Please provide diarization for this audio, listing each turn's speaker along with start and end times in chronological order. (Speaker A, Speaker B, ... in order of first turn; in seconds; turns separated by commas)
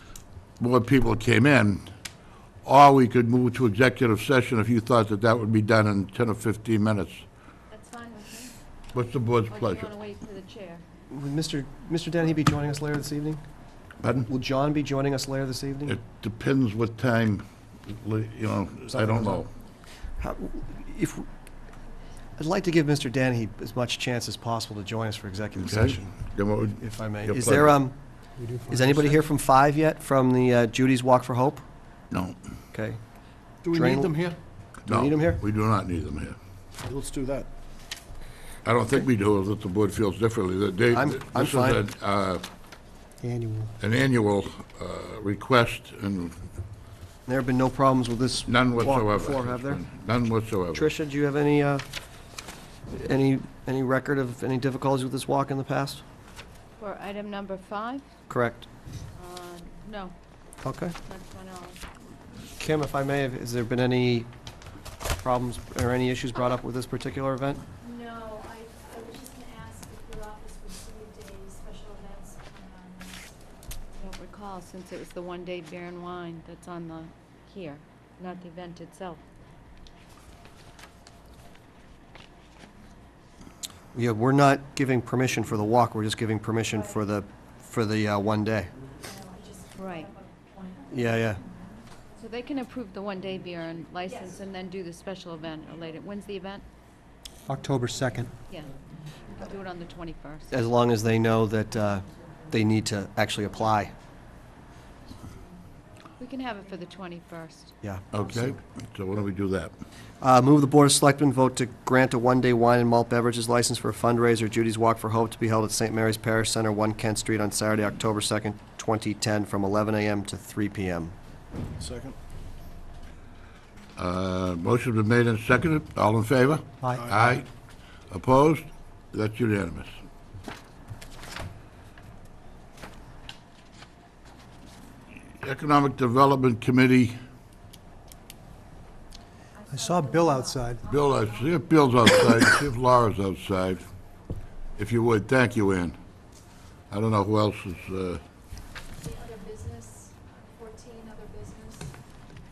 Speaker A: 0.6-1.9, Speaker A: 2.6-7.2, Speaker B: 7.7-8.5, Speaker A: 8.9-9.9, Speaker B: 9.5-10.8, Speaker C: 11.1-13.4, Speaker A: 14.0-14.3, Speaker C: 14.3-16.0, Speaker A: 15.9-19.5, Speaker C: 18.9-19.5, Speaker C: 20.2-21.3, Speaker C: 22.4-26.1, Speaker A: 25.6-27.8, Speaker C: 26.8-28.0, Speaker D: 28.4-29.2, Speaker C: 28.7-31.6, Speaker A: 32.1-32.4, Speaker C: 32.7-33.0, Speaker E: 33.6-34.4, Speaker C: 33.7-34.2, Speaker C: 34.9-35.4, Speaker A: 34.9-36.4, Speaker E: 36.8-37.5, Speaker A: 38.6-42.5, Speaker C: 40.9-41.8, Speaker D: 43.2-43.7, Speaker A: 43.8-46.4, Speaker C: 47.3-49.8, Speaker A: 48.5-50.9, Speaker C: 50.7-51.9, Speaker C: 52.9-56.0, Speaker B: 56.8-58.0, Speaker C: 58.3-58.7, Speaker B: 59.1-60.1, Speaker C: 60.6-61.0, Speaker B: 61.1-61.8, Speaker C: 62.6-64.3, Speaker C: 65.2-67.6, Speaker F: 67.8-73.3, Speaker B: 74.0-79.2, Speaker C: 83.9-88.7, Speaker F: 89.0-90.9, Speaker B: 89.8-90.1, Speaker C: 90.9-91.4, Speaker B: 92.2-96.6, Speaker D: 97.5-98.3, Speaker B: 99.4-100.5, Speaker C: 100.5-103.9, Speaker B: 106.2-107.7, Speaker A: 108.1-109.7, Speaker C: 110.2-121.1, Speaker E: 121.8-122.2, Speaker A: 124.0-127.5, Speaker D: 126.8-127.2, Speaker E: 127.0-127.2, Speaker A: 128.1-129.9, Speaker A: 135.4-137.2, Speaker F: 139.6-139.9, Speaker D: 139.7-140.9, Speaker A: 140.9-143.9, Speaker A: 144.8-146.0, Speaker A: 146.9-148.2, Speaker F: 149.0-151.9